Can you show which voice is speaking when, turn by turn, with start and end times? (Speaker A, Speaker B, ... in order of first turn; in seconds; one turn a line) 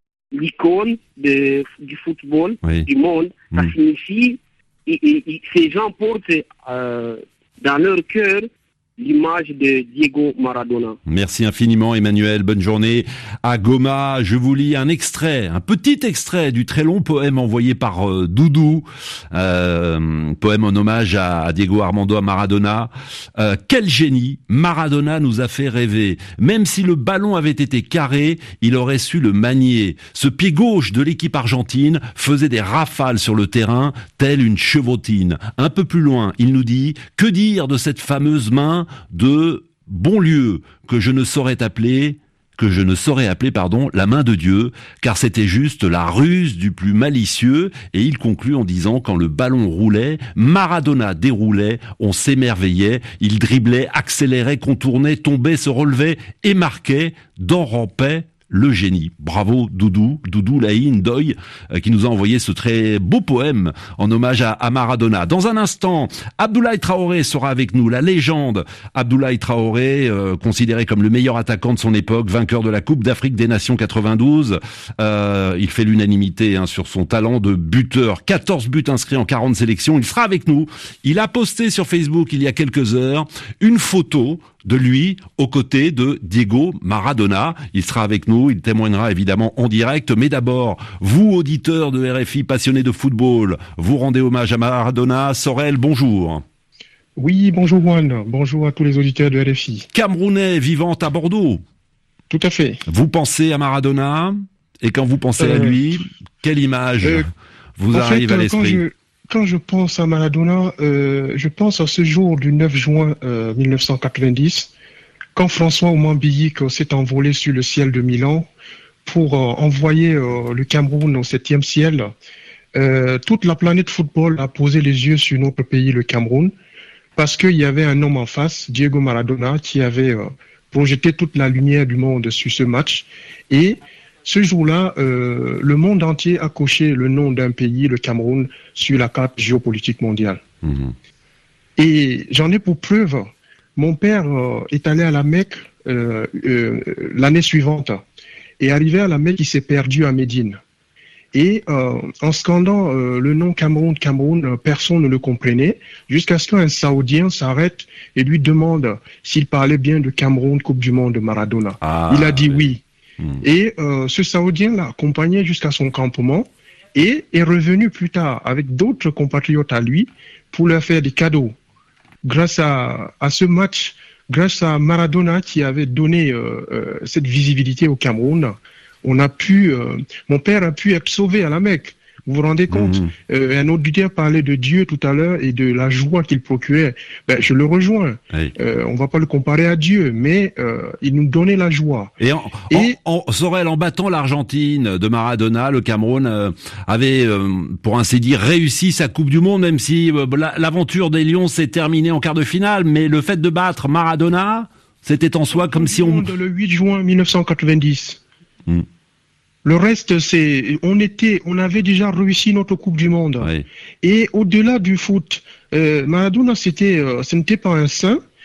Speaker A: 0.3-11.0
Speaker B: 11.1-96.4
Speaker C: 97.2-99.9
Speaker B: 99.9-101.6
Speaker C: 102.3-102.8
Speaker B: 102.9-107.2
Speaker C: 105.4-105.8
Speaker B: 107.8-108.8
Speaker C: 107.9-114.7
Speaker C: 115.4-118.4
Speaker C: 119.0-122.1
Speaker C: 122.8-126.5
Speaker C: 127.2-140.4
Speaker B: 140.6-140.9
Speaker C: 141.8-148.0
Speaker C: 148.6-150.6
Speaker C: 151.3-162.8
Speaker B: 161.8-162.7
Speaker C: 163.4-171.5
Speaker C: 172.2-192.1
Speaker B: 182.7-183.1
Speaker B: 192.2-206.2
Speaker C: 205.5-208.2
Speaker C: 209.6-218.2